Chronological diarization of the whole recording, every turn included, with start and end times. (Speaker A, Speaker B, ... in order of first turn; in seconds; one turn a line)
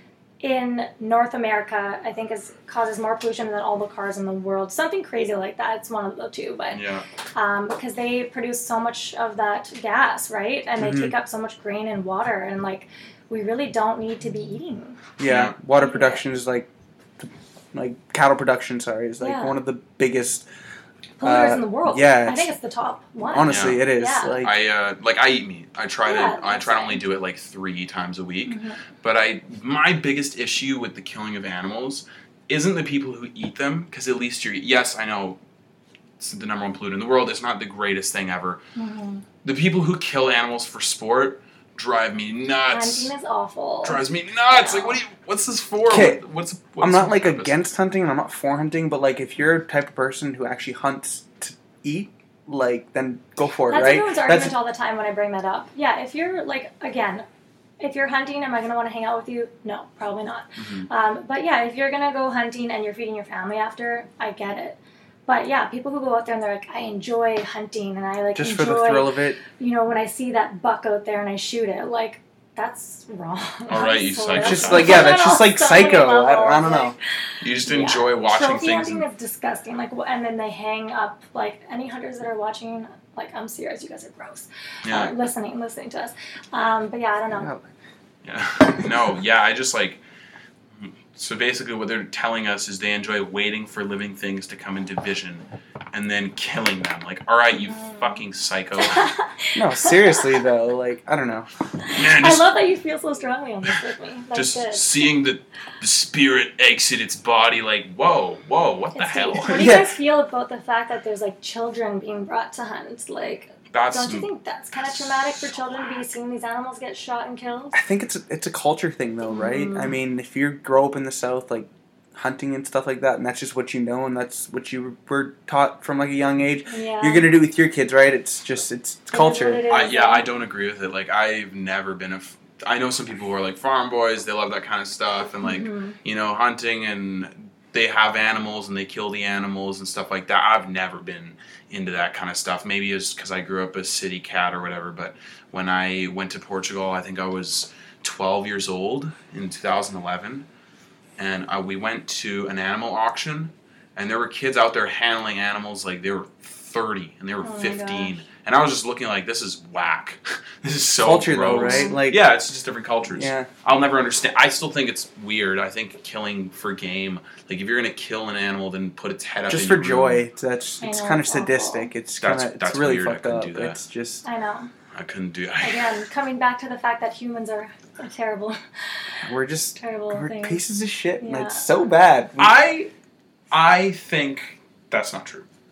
Speaker A: 0.4-6.8
Speaker B: 6.7-7.1
Speaker A: 7.3-15.0
Speaker C: 10.8-11.2
Speaker C: 15.2-20.5
Speaker B: 15.2-15.6
Speaker A: 15.8-16.2
Speaker A: 19.2-19.6
Speaker A: 21.2-24.4
Speaker C: 21.2-22.5
Speaker C: 23.3-24.6
Speaker B: 23.5-23.8
Speaker B: 24.4-35.4
Speaker A: 26.0-27.0
Speaker A: 28.5-28.8
Speaker B: 36.2-38.6
Speaker A: 38.8-39.2
Speaker B: 39.4-43.1
Speaker A: 42.7-45.0
Speaker B: 43.8-47.7
Speaker C: 45.9-46.2
Speaker C: 46.8-54.5
Speaker A: 53.7-57.3
Speaker A: 57.8-77.0
Speaker B: 60.6-60.9
Speaker C: 68.3-69.4
Speaker B: 73.7-75.1
Speaker C: 74.3-77.0
Speaker B: 77.4-79.0
Speaker A: 77.6-87.5
Speaker B: 84.8-85.2
Speaker C: 87.4-87.7
Speaker B: 88.2-90.0
Speaker B: 90.8-99.1
Speaker A: 97.7-98.2
Speaker A: 98.8-100.4
Speaker C: 99.5-101.5
Speaker A: 101.8-105.1
Speaker B: 101.9-102.5
Speaker B: 104.3-109.7
Speaker A: 109.0-117.8
Speaker C: 109.4-110.0
Speaker B: 113.7-114.3
Speaker B: 114.9-115.5
Speaker C: 117.7-129.7
Speaker A: 119.3-120.0
Speaker A: 126.7-127.3
Speaker A: 129.1-130.3
Speaker B: 129.7-150.5
Speaker A: 135.4-136.0
Speaker B: 151.2-170.2
Speaker A: 157.4-158.2
Speaker C: 161.0-162.2
Speaker A: 161.6-162.0
Speaker C: 163.1-163.5
Speaker C: 169.5-174.2
Speaker A: 170.8-171.9
Speaker B: 172.2-173.8
Speaker A: 174.2-174.7
Speaker B: 174.9-175.9
Speaker A: 175.6-178.6
Speaker C: 179.2-182.5
Speaker A: 179.8-180.6
Speaker A: 181.2-181.7
Speaker B: 182.4-182.9
Speaker B: 183.5-185.5